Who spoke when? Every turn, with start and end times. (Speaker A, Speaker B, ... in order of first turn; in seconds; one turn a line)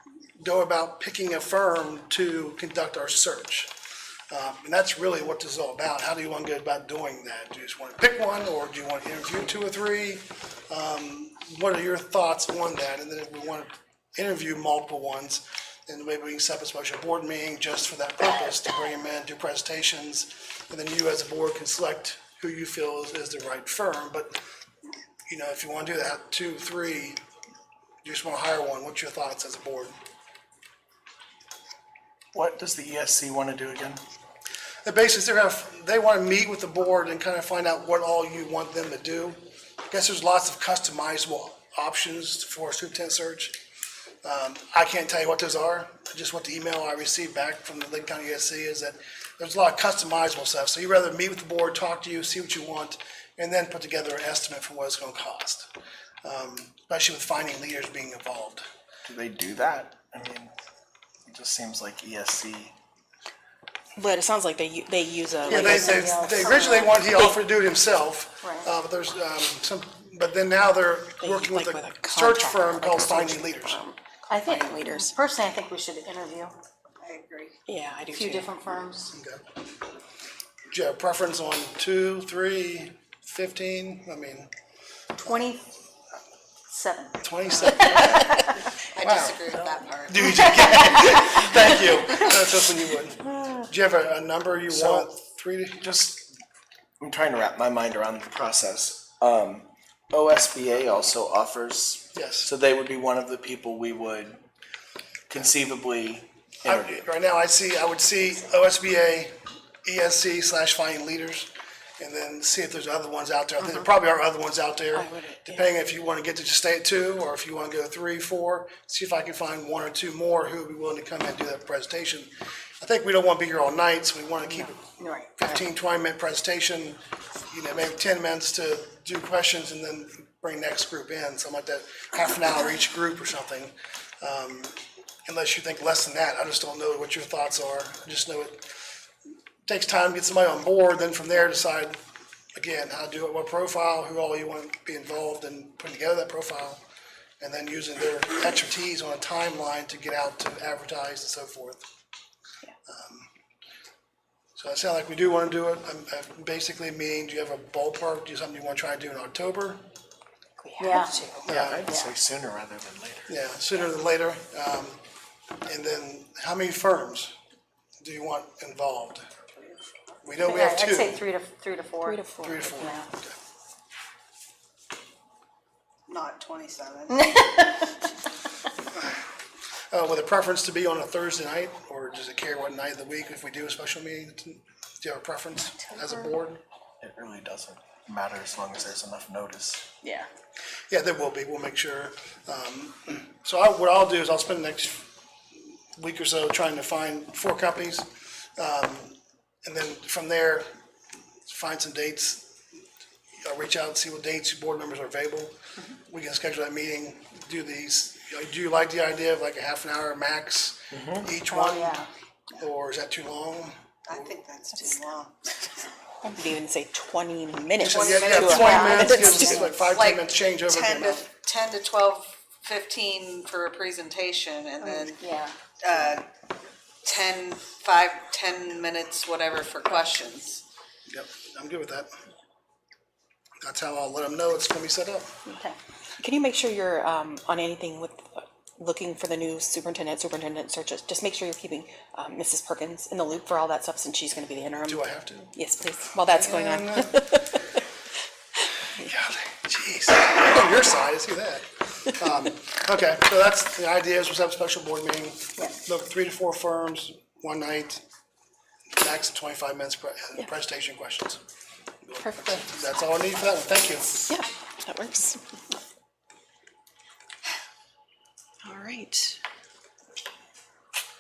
Speaker A: 0.4-3.7
Speaker A: 4.3-24.4
Speaker A: 25.3-27.2
Speaker A: 28.0-30.0
Speaker B: 32.3-34.0
Speaker A: 34.8-43.6
Speaker A: 44.2-55.7
Speaker A: 56.2-58.6
Speaker B: 59.0-60.5
Speaker B: 61.3-62.8
Speaker C: 64.0-67.4
Speaker A: 65.5-73.8
Speaker D: 65.5-67.1
Speaker D: 68.4-68.7
Speaker C: 71.2-75.1
Speaker D: 74.3-76.6
Speaker E: 77.0-77.6
Speaker C: 77.7-78.5
Speaker D: 78.1-79.2
Speaker A: 79.1-79.5
Speaker A: 80.7-84.5
Speaker D: 85.2-85.7
Speaker D: 86.7-88.4
Speaker A: 87.2-88.4
Speaker C: 87.9-88.2
Speaker E: 88.7-90.7
Speaker A: 89.0-89.4
Speaker A: 90.1-95.8
Speaker D: 90.3-91.2
Speaker B: 94.7-95.1
Speaker B: 95.8-96.3
Speaker B: 97.0-104.4
Speaker A: 102.1-102.5
Speaker B: 105.3-107.0
Speaker A: 106.7-138.7
Speaker C: 114.9-115.7
Speaker D: 125.0-125.4
Speaker A: 139.7-142.0
Speaker A: 142.6-146.8
Speaker A: 147.4-151.8
Speaker A: 152.9-153.3
Speaker A: 154.6-159.8
Speaker C: 160.6-161.2
Speaker D: 160.8-162.1
Speaker B: 161.4-163.3
Speaker A: 161.5-161.8
Speaker A: 163.3-165.0
Speaker A: 165.7-167.3
Speaker A: 168.0-169.3
Speaker E: 169.6-169.8
Speaker A: 170.2-171.3
Speaker D: 170.4-173.1
Speaker C: 172.0-172.9
Speaker A: 172.4-173.3
Speaker E: 176.1-177.6
Speaker D: 177.2-177.5
Speaker A: 179.9-186.6
Speaker B: 187.0-189.9
Speaker A: 190.9-195.1
Speaker A: 196.0-200.7
Speaker A: 201.5-202.5
Speaker A: 203.4-214.3
Speaker B: 210.9-211.3
Speaker D: 211.5-212.1
Speaker E: 214.1-215.5
Speaker C: 216.2-219.7
Speaker A: 217.8-221.3
Speaker E: 217.8-225.2
Speaker D: 218.6-219.6
Speaker D: 224.8-225.6
Speaker E: 225.8-226.3
Speaker E: 227.0-230.6
Speaker A: 231.1-232.1
Speaker A: 233.6-235.3
Speaker D: 235.5-235.8
Speaker C: 236.2-247.6
Speaker A: 244.9-245.6
Speaker A: 246.2-247.3
Speaker A: 249.0-258.0
Speaker A: 259.0-261.4
Speaker A: 262.0-264.2
Speaker C: 262.2-262.6
Speaker C: 264.3-265.4
Speaker C: 268.6-269.4